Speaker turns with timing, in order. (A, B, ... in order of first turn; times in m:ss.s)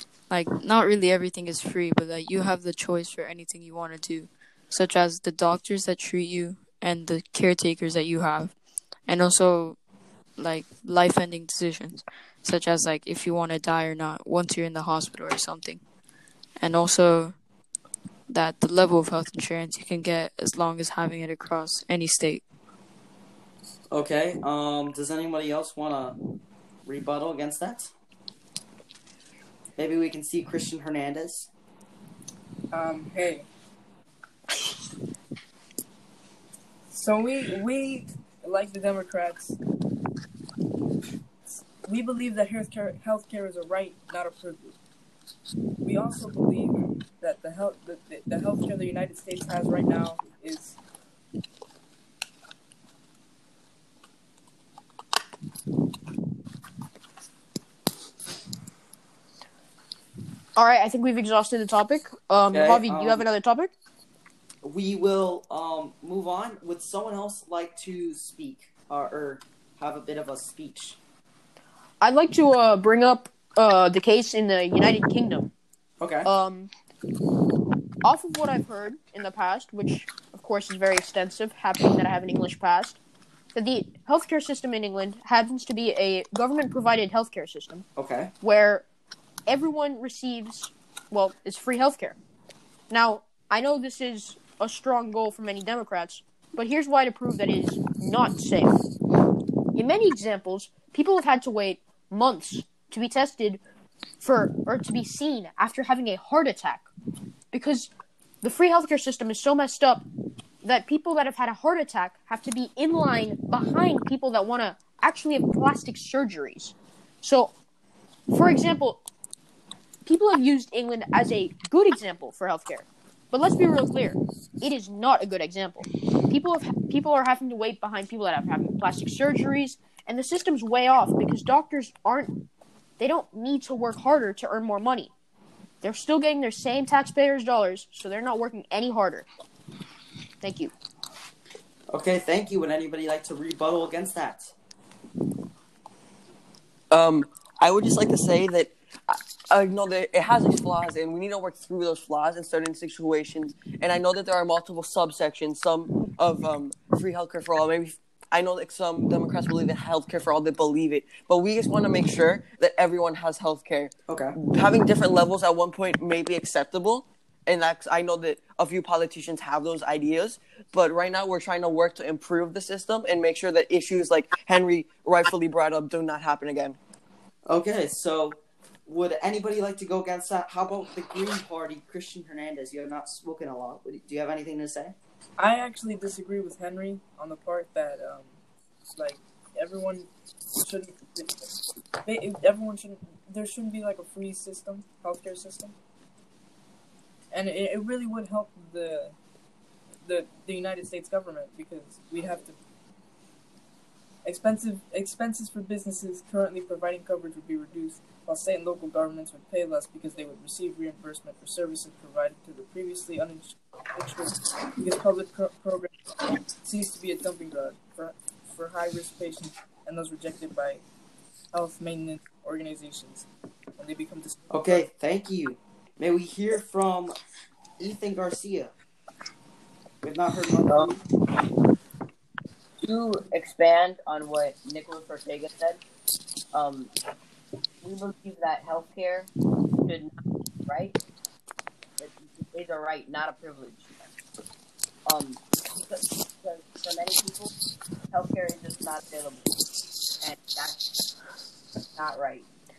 0:00.3-0:08.5 A
0:09.1-0:09.8 A
0:10.4-0:15.8 A
0:16.6-0:17.4 A
0:18.3-0:22.4 A
0:23.9-0:26.2 B
0:26.8-0:27.9 B
0:29.8-0:31.5 B
0:32.7-0:33.4 C
0:36.9-0:39.6 C
0:41.4-0:44.8 C
0:45.8-0:50.8 C
1:00.6-1:03.7 D
1:02.5-1:03.3 B
1:04.6-1:11.0 B
1:12.0-1:15.5 D
1:16.0-1:16.3 B
1:16.2-1:16.7 D
1:18.0-1:23.0 D
1:23.5-1:27.8 D
1:28.0-1:28.3 B
1:28.4-1:28.8 D
1:29.5-1:32.2 D
1:32.9-1:38.7 D
1:39.7-1:43.6 D
1:44.2-1:46.9 D
1:47.5-1:47.9 D
1:48.4-1:50.0 D
1:50.6-1:57.5 D
1:58.3-1:59.0 D
2:00.0-2:12.3 D
2:13.0-2:15.1 D
2:15.8-2:19.3 D
2:20.4-2:20.7 D
2:21.9-2:24.5 B
2:26.9-2:56.8 E
2:44.1-2:44.3 B
2:57.4-3:05.0 B
3:05.4-3:08.3 C
3:09.0-3:10.1 C
3:10.6-3:11.5 C
3:12.0-3:15.7 C
3:17.3-3:19.2 C
3:20.0-3:22.6 C
3:24.2-3:35.9 C
3:36.6-3:40.8 C
3:41.5-3:43.3 C
3:43.8-3:44.8 C
3:44.5-3:47.2 B
3:47.8-3:48.7 B
3:50.0-3:51.0 B
3:52.8-3:55.8 F
3:56.5-3:56.9 F
3:57.8-4:01.0 F
4:02.0-4:03.9 F
4:05.0-4:07.5 F
4:08.1-4:09.4 F
4:10.2-4:10.8 F
4:12.0-4:12.5 F